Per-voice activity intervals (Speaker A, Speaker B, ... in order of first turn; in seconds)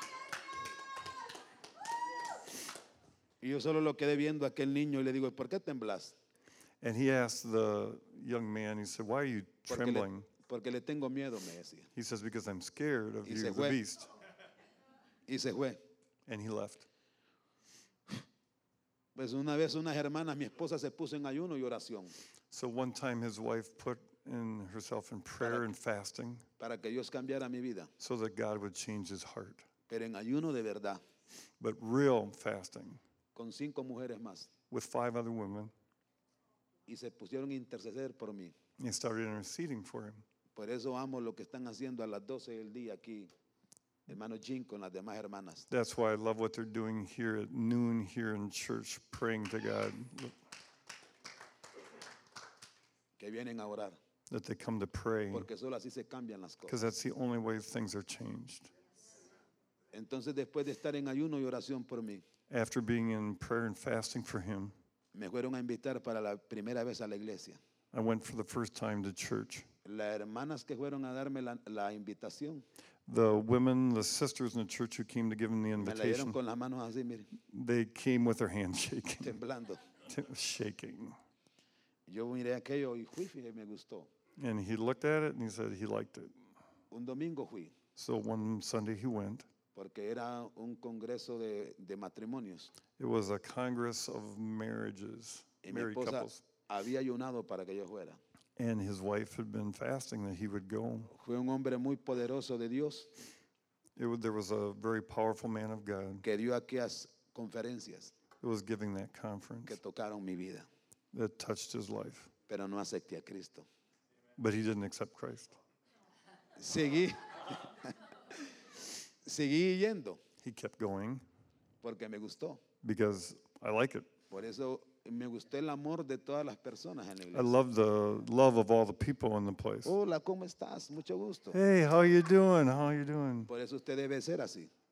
Speaker A: 3.4-6.1, 9.7-11.9, 13.2-13.8, 15.3-15.8, 19.1-22.1, 25.4-25.6, 26.6-27.9, 29.9-31.0, 33.3-34.5, 36.9-38.5, 40.5-43.3, 44.1-45.7, 53.2-54.0, 55.3-56.8, 59.9-62.2, 65.1-67.6, 69.8-72.6, 75.8-77.3, 79.2-79.8, 82.1-84.1, 86.9-87.7, 89.7-92.7, 95.6-98.2, 101.1-103.1, 106.2-108.1, 109.7-110.7, 112.5-113.7, 116.6-118.5, 119.2-120.2, 121.8-122.6, 124.3-127.5, 129.8-131.6, 133.5-134.7
Speaker B: 6.8-10.3, 11.9-14.1, 16.3-16.9, 22.5-26.4, 28.0-29.7, 31.6-33.0, 34.7-35.7, 38.8-40.2, 45.7-50.4, 54.3-55.5, 56.7-58.7, 62.5-64.7, 67.9-69.7, 73.1-76.4, 77.4-79.4, 80.0-81.2, 84.4-86.3, 88.0-89.5, 93.0-96.4, 98.5-101.1, 104.0-106.2, 108.4-109.8, 111.1-112.3, 114.4-115.6, 120.4-121.2, 122.8-124.1, 127.3-129.9, 131.5-133.5